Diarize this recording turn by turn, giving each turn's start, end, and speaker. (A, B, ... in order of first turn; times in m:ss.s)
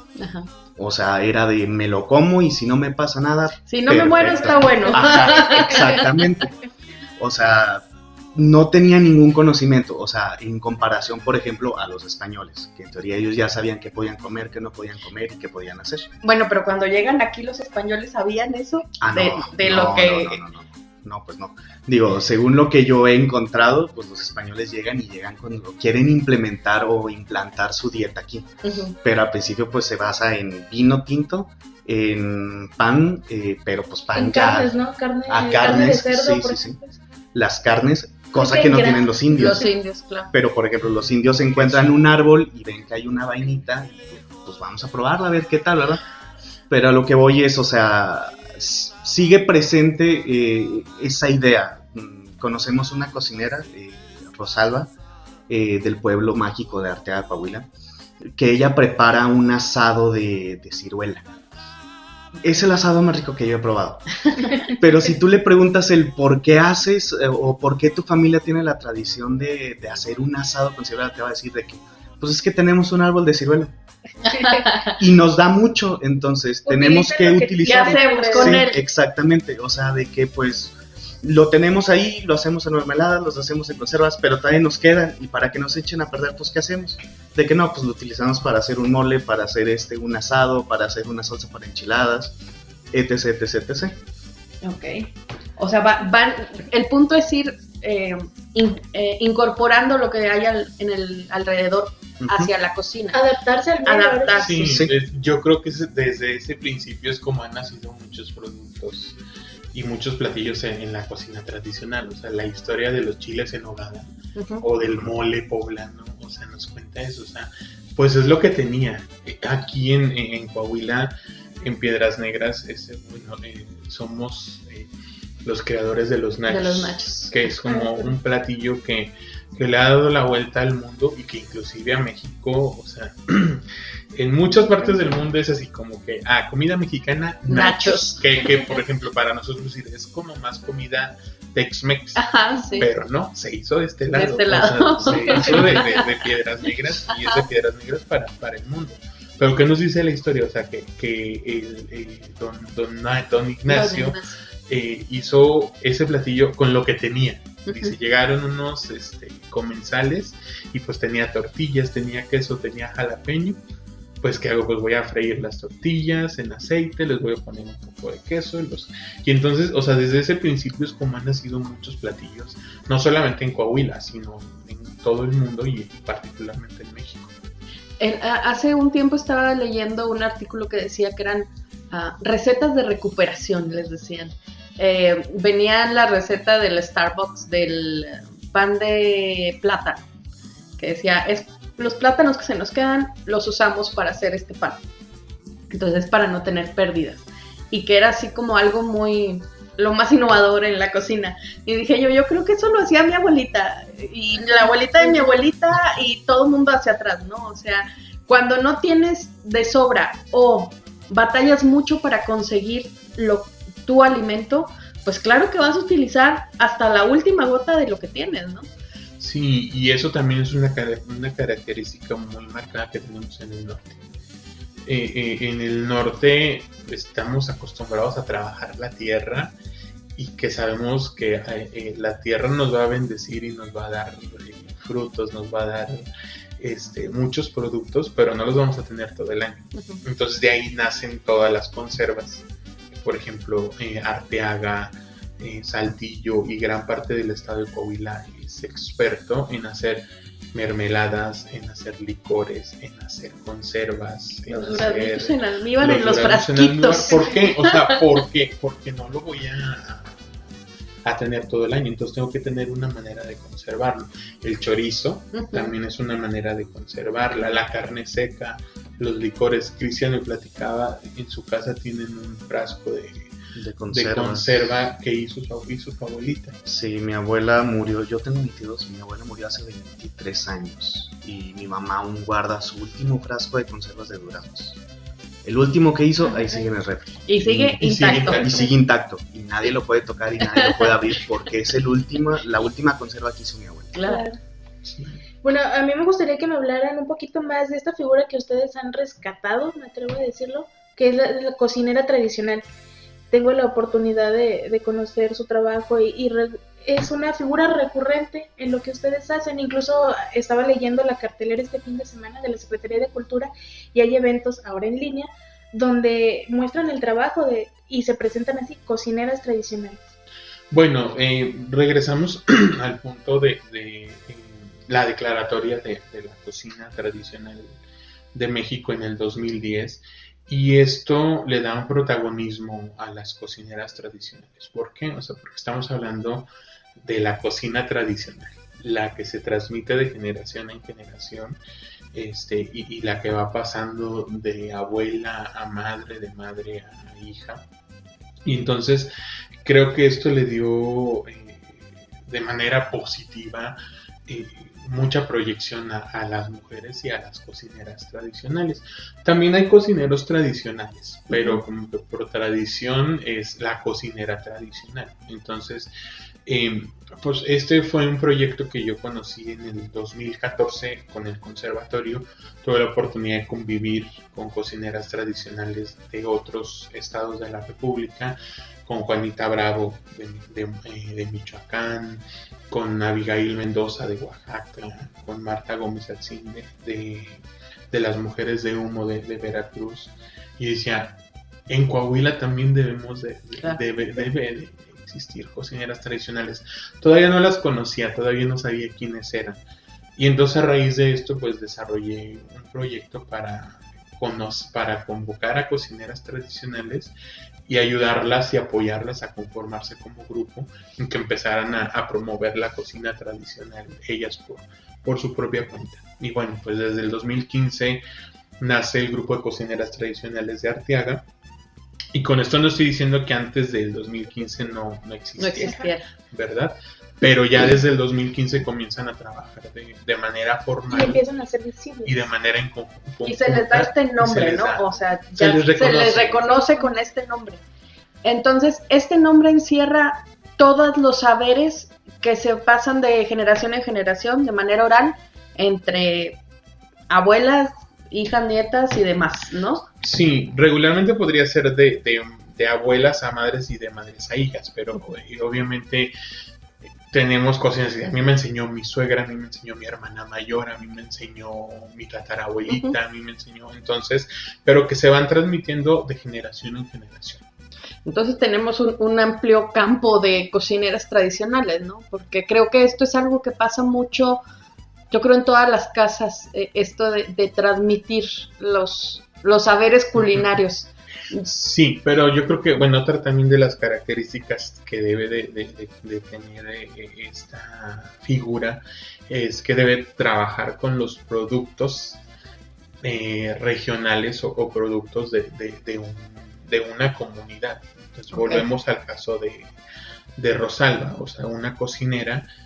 0:00.2-0:00.5 A
0:00.8-0:06.5 B
0:03.7-0:06.1 A
0:04.7-0:05.1 C
0:07.2-0:16.1 B
0:16.2-0:20.4 A
0:19.0-0:28.5 B
0:28.6-0:28.9 A
0:29.0-0:34.7 B
0:34.1-0:37.0 C
0:35.3-0:36.8 B
0:37.3-0:39.6 B
0:38.3-0:39.7 C
0:39.3-0:40.3 A
0:40.3-0:46.0 B
0:41.5-0:42.0 D
0:46.7-0:54.9 B
0:55.5-0:57.7 B
0:58.2-1:01.3 B
1:02.4-1:13.7 B
1:14.3-1:15.0 A
1:15.0-1:32.4 B
1:16.6-1:18.7 C
1:17.6-1:18.8 A
1:32.9-1:34.0 B
1:34.6-1:43.2 A
1:42.2-1:42.5 B
1:43.1-1:44.5 C
1:43.8-1:44.8 A
1:44.3-1:49.2 D
1:44.6-1:44.9 B
1:49.7-1:54.1 D
1:54.4-1:54.6 A
1:54.6-2:04.9 D
1:54.8-1:55.1 B
2:05.4-2:43.6 D
2:06.5-2:08.1 A
2:14.5-2:15.0 A
2:17.5-2:18.7 A
2:22.2-2:22.9 A
2:24.1-2:26.1 A
2:33.7-2:34.4 A
2:37.7-2:37.9 A
2:44.2-2:57.3 D
2:58.0-3:10.0 A
3:10.8-3:14.8 A
3:15.7-3:38.7 A
3:24.5-3:25.4 C
3:39.2-3:44.1 D
3:44.8-3:49.5 D
3:50.2-3:56.1 D
3:56.6-4:20.5 D
4:14.5-4:17.9 A
4:21.0-4:33.3 D
4:25.3-4:25.7 A
4:33.5-4:34.8 B
4:33.9-4:36.6 D
4:36.6-4:44.8 B
4:45.4-4:54.0 B
4:47.3-4:48.7 A
4:47.4-4:48.7 D
4:53.9-4:54.3 A
4:54.0-4:54.4 C
4:54.8-4:55.2 D
4:55.4-5:02.6 C
5:03.3-5:20.0 C
5:20.7-5:27.8 D
5:28.3-5:36.5 D
5:37.0-5:41.6 D
5:42.1-5:47.6 D
5:48.4-6:05.9 D
6:01.3-6:01.6 A
6:06.4-6:39.6 D
6:33.6-6:34.3 A
6:40.2-6:47.1 D
6:47.7-6:58.0 D
6:58.6-7:01.2 D
7:02.1-7:11.2 D
7:05.4-7:06.0 A
7:10.9-7:12.3 C
7:12.0-7:16.4 D
7:13.2-7:17.6 A
7:16.4-7:16.9 C
7:18.2-7:26.4 A
7:27.1-7:29.9 A
7:30.0-7:36.1 D
7:37.1-7:47.4 D
7:42.7-7:43.0 A
7:48.0-7:54.4 A
7:55.1-8:01.5 A
8:00.1-8:00.5 D
8:01.4-8:12.2 D
8:13.0-8:19.8 D
8:18.3-8:18.6 A
8:20.4-8:22.4 D